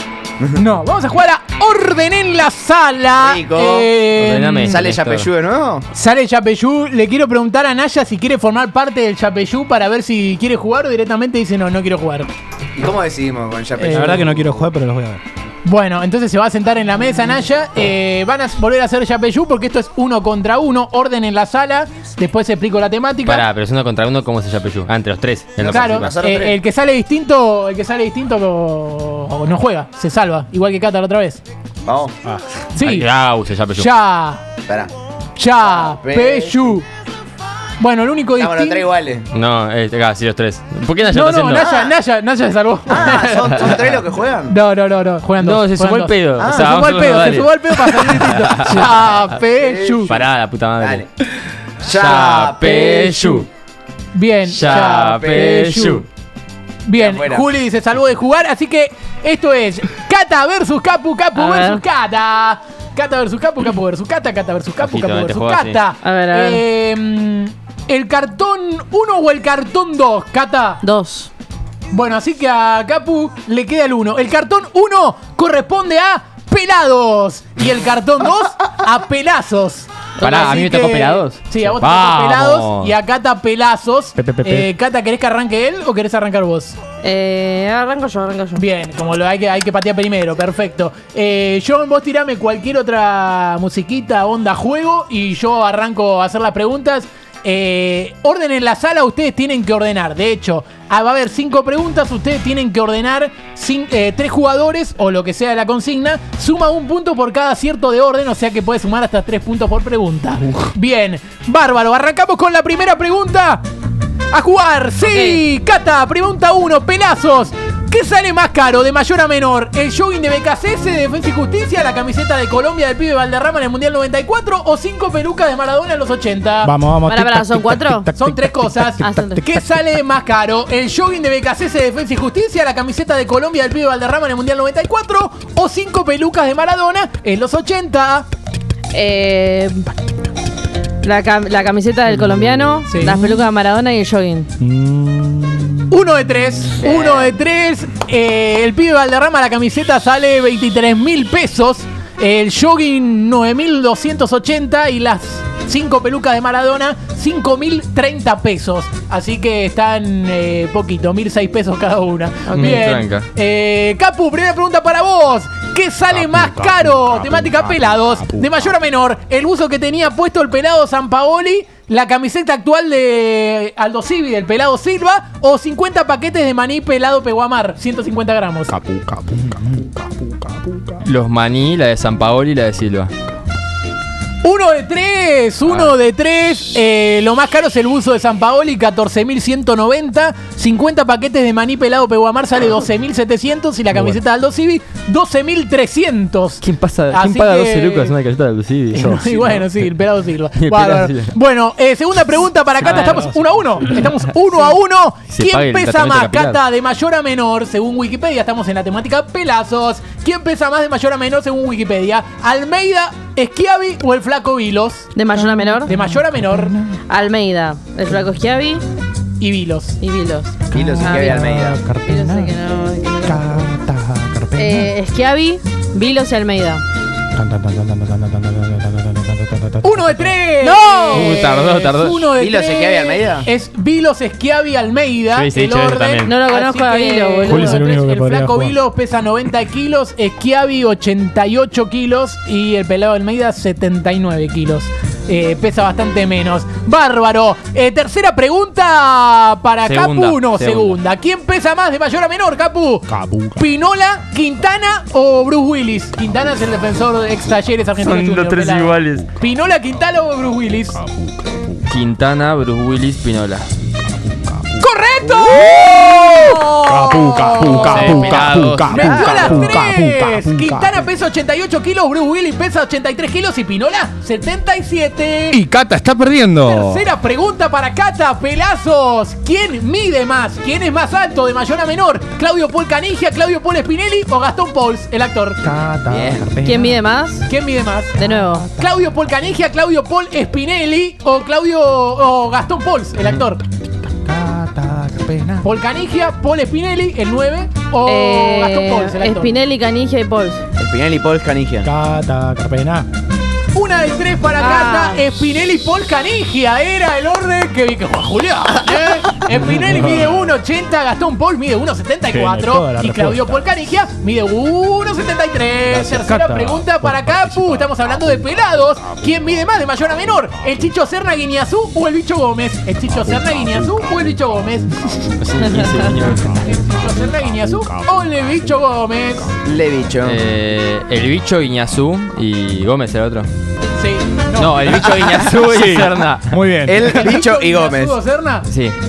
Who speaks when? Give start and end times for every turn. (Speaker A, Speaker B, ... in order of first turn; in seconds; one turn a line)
Speaker A: 0.6-4.8
Speaker B: 3.2-3.9
Speaker C: 4.2-5.3
Speaker B: 4.6-5.9
Speaker A: 5.9-12.3
Speaker B: 12.8-14.6
Speaker A: 13.8-14.3
Speaker D: 13.9-15.2
Speaker A: 15.7-23.5
Speaker C: 23.2-26.1
Speaker B: 25.6-26.6
Speaker A: 25.6-31.4
Speaker B: 31.9-32.2
Speaker A: 32.8-33.1
Speaker C: 32.8-33.9
Speaker A: 33.8-34.4
Speaker B: 34.7-34.9
Speaker A: 35.4-36.9
Speaker B: 35.6-36.8
Speaker A: 37.8-38.9
Speaker B: 38.4-39.3
Speaker C: 39.3-41.7
Speaker A: 41.1-43.8
Speaker B: 41.6-41.9
Speaker B: 42.9-44.6
Speaker C: 43.4-43.8
Speaker A: 44.5-50.1
Speaker C: 45.4-48.9
Speaker B: 46.4-47.0
Speaker B: 49.4-50.3
Speaker C: 50.1-51.0
Speaker B: 50.8-51.1
Speaker B: 51.8-53.5
Speaker C: 51.8-53.5
Speaker A: 54.1-56.1
Speaker C: 54.5-56.1
Speaker B: 54.6-55.8
Speaker A: 56.9-70.8
Speaker B: 57.0-57.5
Speaker E: 61.4-61.8
Speaker C: 64.8-65.8
Speaker E: 66.0-66.6
Speaker E: 70.8-71.3
Speaker A: 71.9-86.8
Speaker C: 80.2-82.9
Speaker D: 84.2-84.7
Speaker E: 87.0-88.7
Speaker A: 88.6-113.6
Speaker A: 114.3-126.8
Speaker E: 115.0-115.4
Speaker D: 126.6-129.7
Speaker E: 127.0-128.2
Speaker A: 128.2-138.3
Speaker E: 129.0-129.4
Speaker E: 138.9-139.9
Speaker E: 141.0-144.5
Speaker A: 142.9-143.2
Speaker D: 143.0-143.4
Speaker D: 144.6-145.9
Speaker A: 145.9-178.8
Speaker B: 146.8-147.3
Speaker E: 162.5-162.8
Speaker C: 162.5-163.3
Speaker D: 166.1-168.7
Speaker D: 178.7-181.0
Speaker C: 181.0-183.1
Speaker A: 184.4-198.2
Speaker C: 185.7-185.9
Speaker D: 193.9-194.2
Speaker C: 196.6-199.6
Speaker A: 198.9-215.1
Speaker C: 200.6-201.3
Speaker D: 202.8-204.1
Speaker C: 202.9-203.1
Speaker C: 205.3-206.6
Speaker E: 215.1-215.9
Speaker D: 215.3-217.0
Speaker A: 215.8-216.8
Speaker E: 217.1-218.8
Speaker A: 219.4-220.0
Speaker E: 220.0-223.7
Speaker D: 220.7-222.6
Speaker B: 220.7-221.8
Speaker D: 223.2-224.9
Speaker E: 224.6-226.8
Speaker D: 227.3-230.4
Speaker A: 229.8-261.0
Speaker E: 230.6-231.4
Speaker C: 231.1-232.3
Speaker B: 232.4-233.5
Speaker C: 235.3-236.3
Speaker E: 236.2-237.8
Speaker D: 237.4-238.8
Speaker C: 249.9-251.0
Speaker D: 253.1-253.7
Speaker C: 258.0-259.3
Speaker D: 261.0-262.0
Speaker C: 261.9-263.7
Speaker D: 264.2-271.0
Speaker A: 264.8-275.7
Speaker B: 265.5-265.8
Speaker C: 267.7-269.1
Speaker B: 268.9-269.8
Speaker D: 275.5-277.0
Speaker A: 276.6-285.6
Speaker D: 285.6-287.0
Speaker B: 286.1-286.6
Speaker E: 286.6-287.5
Speaker A: 287.5-293.6
Speaker D: 288.2-289.0
Speaker E: 288.2-288.7
Speaker D: 294.0-295.7
Speaker A: 295.6-299.6
Speaker E: 298.0-300.6
Speaker B: 300.8-301.9
Speaker D: 301.8-303.1
Speaker A: 303.7-325.3
Speaker E: 304.6-305.2
Speaker D: 309.7-310.5
Speaker D: 312.3-313.7
Speaker D: 315.9-320.9
Speaker D: 323.1-329.6
Speaker C: 325.4-326.6
Speaker A: 326.6-329.6
Speaker B: 329.6-330.4
Speaker C: 330.2-333.5
Speaker A: 334.0-335.5
Speaker C: 334.6-336.6
Speaker D: 335.4-337.1
Speaker B: 336.9-338.2
Speaker A: 337.0-338.7
Speaker C: 338.7-339.0